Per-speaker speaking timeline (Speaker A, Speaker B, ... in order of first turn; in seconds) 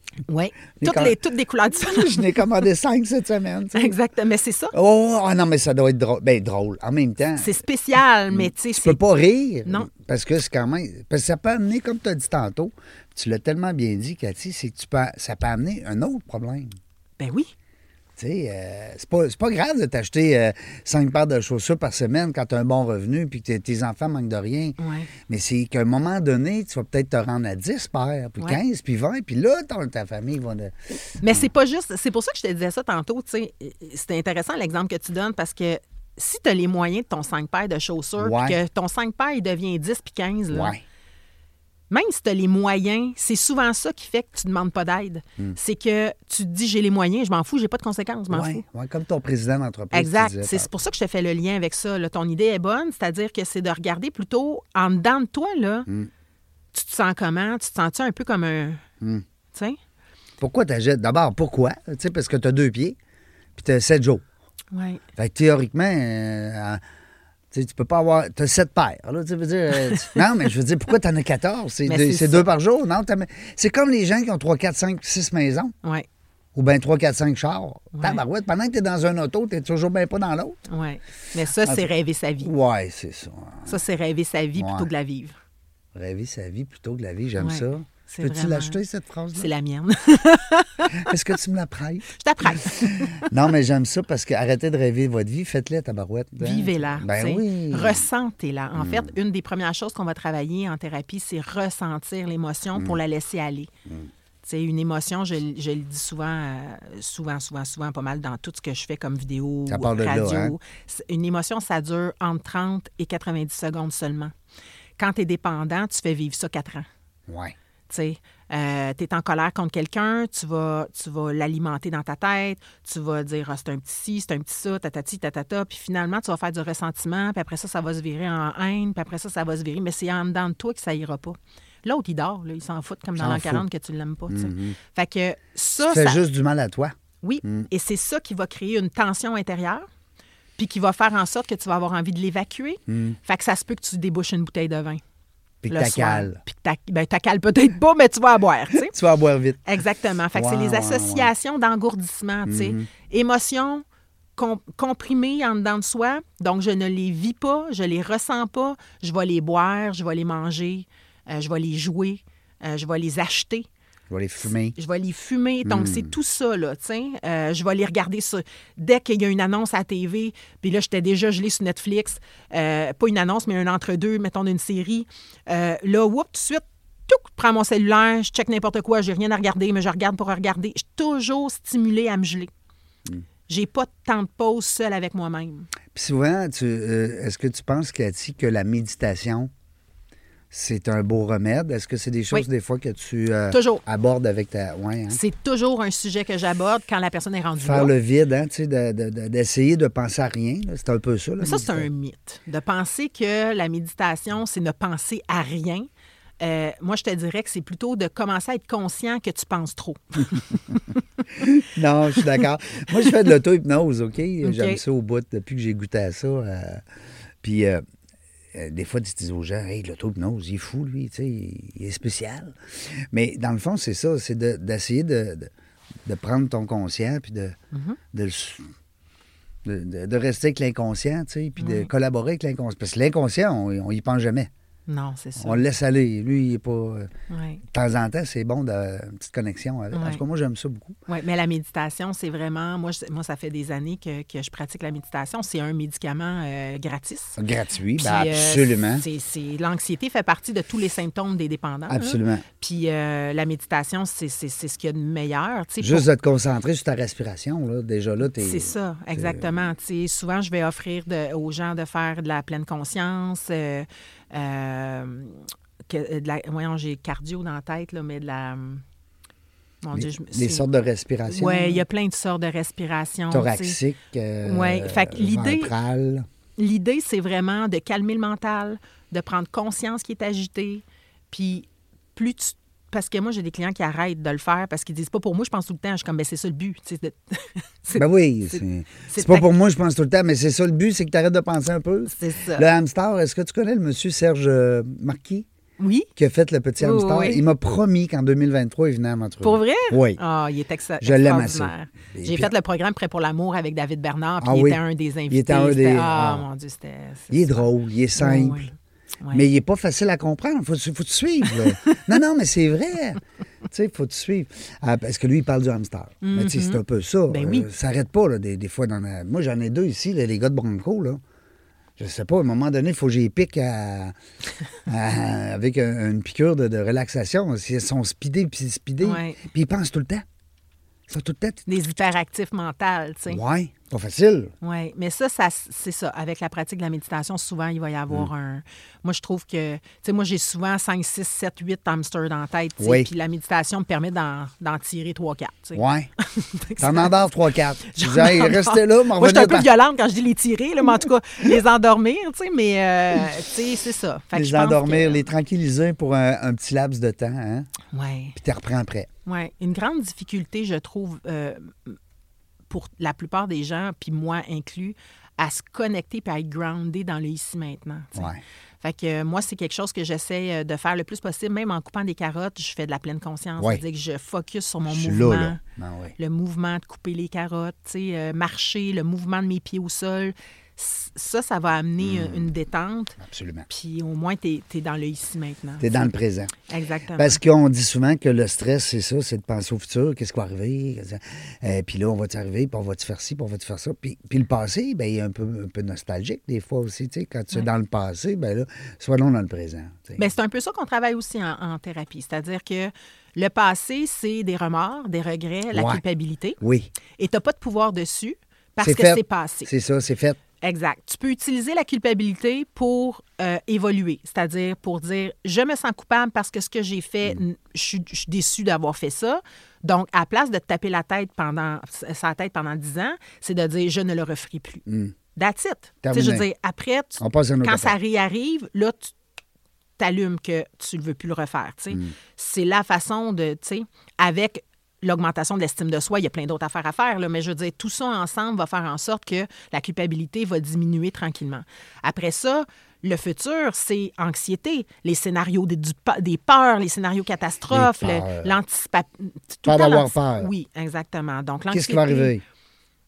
Speaker A: 0.3-2.3, 3.7-4.7, 7.4-9.0, 17.2-17.5, 24.8-25.1, 31.2-40.8, 41.9-48.6, 49.9-55.9, 56.7-58.8, 64.7-65.0, 69.9-70.2, 71.8-72.5, 77.9-78.2, 80.7-82.5, 83.7-85.4, 87.4-88.8, 89.3-91.1, 92.1-93.3, 96.4-103.7, 104.4-114.3, 115.0-116.9, 117.9-136.2, 137.2-139.8, 140.6-145.0, 145.7-148.9, 149.7-153.8, 154.3-163.7, 164.7-182.5, 183.5-185.7, 193.5-193.8, 195.1-197.9, 201.4-205.9, 206.4-210.8, 214.4-214.8, 227.7-228.0, 231.6-231.9, 234.9-235.6, 237.3-237.6, 239.9-240.2, 241.1-247.4, 248.0-256.1, 258.2-268.8, 269.8-270.6, 271.3-273.8, 274.4-275.7, 276.6-289.5, 292.1-292.7, 295.8-296.1, 296.8-297.4, 299.4-307.6, 308.2-309.4, 311.6-312.0, 316.2-317.7, 329.0-329.4, 331.7-333.4, 334.6-347.1, 347.8-355.2, 357.9-358.4, 359.2-362.0, 362.7-375.6, 376.2-386.1, 386.7-387.4, 400.2-406.6, 407.2-409.7, 410.6-429.1, 430.0-452.3
Speaker B: 0.8-1.1, 1.7-3.9, 4.7-7.6, 8.3-16.8, 18.2-31.4, 38.2-38.6, 40.5-40.8, 48.3-50.7, 60.4-63.0, 63.5-64.2, 65.2-66.8, 67.5-75.7, 76.5-80.6, 81.6-81.9, 82.4-83.8, 84.5-84.9, 85.9-89.5, 90.9-98.0, 98.8-99.1, 109.7-110.5, 117.3-117.5, 133.2-133.6, 134.3-134.8, 135.8-137.7, 142.9-143.2, 145.6-146.4, 148.8-149.7, 150.3-151.3, 152.5-152.9, 164.1-164.8, 165.6-166.1, 185.9-189.5, 190.5-195.2, 197.6-201.9, 211.3-216.8, 217.4-217.8, 218.5-222.6, 223.1-225.5, 226.0-227.6, 228.1-228.7, 229.6-234.5, 235.4-237.1, 237.7-241.0, 247.4-249.0, 251.9-252.4, 255.8-259.6, 269.9-271.8, 273.3-276.2, 287.9-295.5, 296.1-300.2, 301.0-302.5, 304.4-306.4, 307.3-308.6, 309.3-321.2, 322.0-324.1, 324.9-330.2, 331.1-331.6, 333.3-334.5, 342.8-343.1, 345.7-346.1, 346.8-349.7, 354.3-357.7, 358.4-359.1, 368.1-368.4, 374.9-376.1, 382.0-382.5, 383.2-383.7, 385.8-386.5, 387.1-400.3, 405.7-406.0, 406.6-406.9, 408.8-410.4, 424.9-425.1, 426.0-426.4, 427.2-427.9, 447.7-448.6, 449.6-450.5, 451.7-452.4